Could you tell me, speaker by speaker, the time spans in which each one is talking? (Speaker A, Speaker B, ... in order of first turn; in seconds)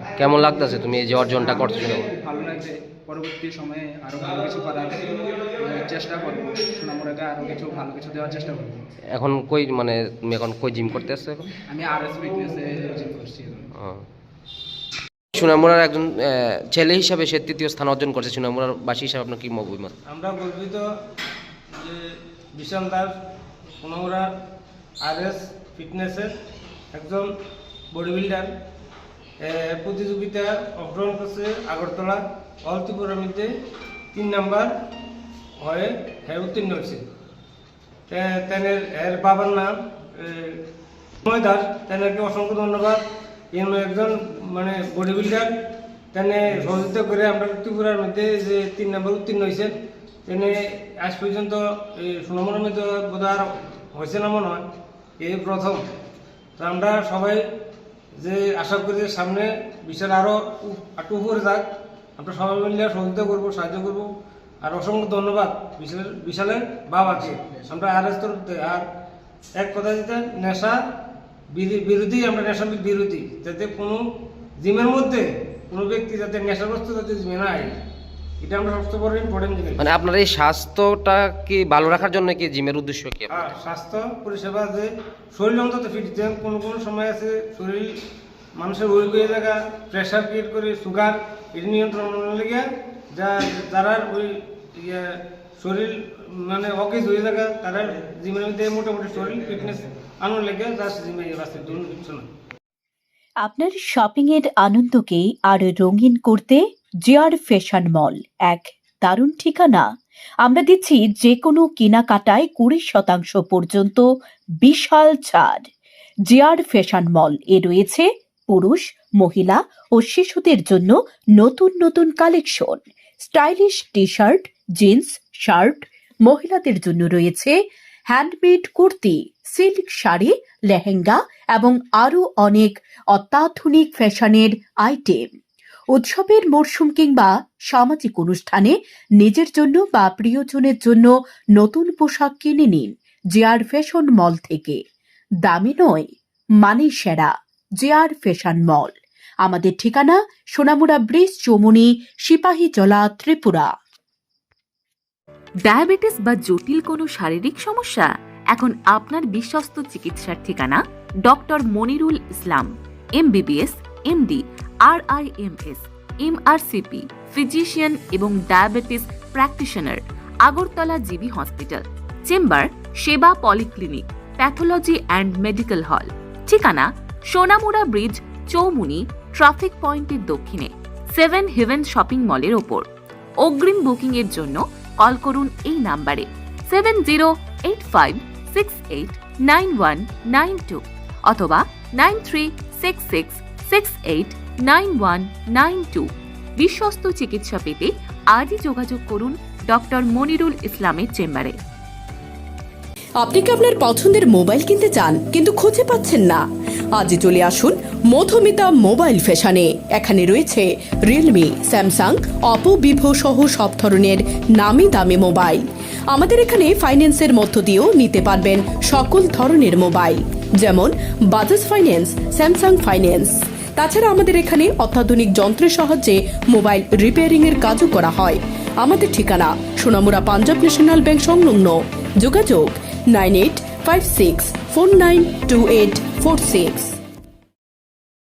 Speaker A: 0.2-2.1, 9.1-11.5, 13.8-14.0, 15.3-19.9, 79.8-83.6
Speaker B: 1.4-8.9, 11.6-13.7
Speaker C: 20.1-20.9, 21.8-23.1, 23.8-24.3, 25.0-26.3, 26.9-27.3, 27.9-28.5, 29.4-33.5, 34.1-34.7, 35.6-37.0, 38.1-40.6, 41.2-43.0, 43.5-45.5, 46.1-54.6, 55.2-55.8, 56.6-57.4, 58.2-64.1, 64.6-68.8, 69.5-70.8, 71.5-74.0, 74.6-77.8, 78.4-79.8, 83.3-88.0, 88.6-95.0, 95.6-102.3
Speaker D: 103.4-109.9, 110.4-115.7, 116.3-135.3, 135.9-144.8, 145.4-146.1, 146.6-153.7
Speaker E: 155.7-182.8, 183.4-201.5
Speaker F: 203.2-206.4, 207.0-236.9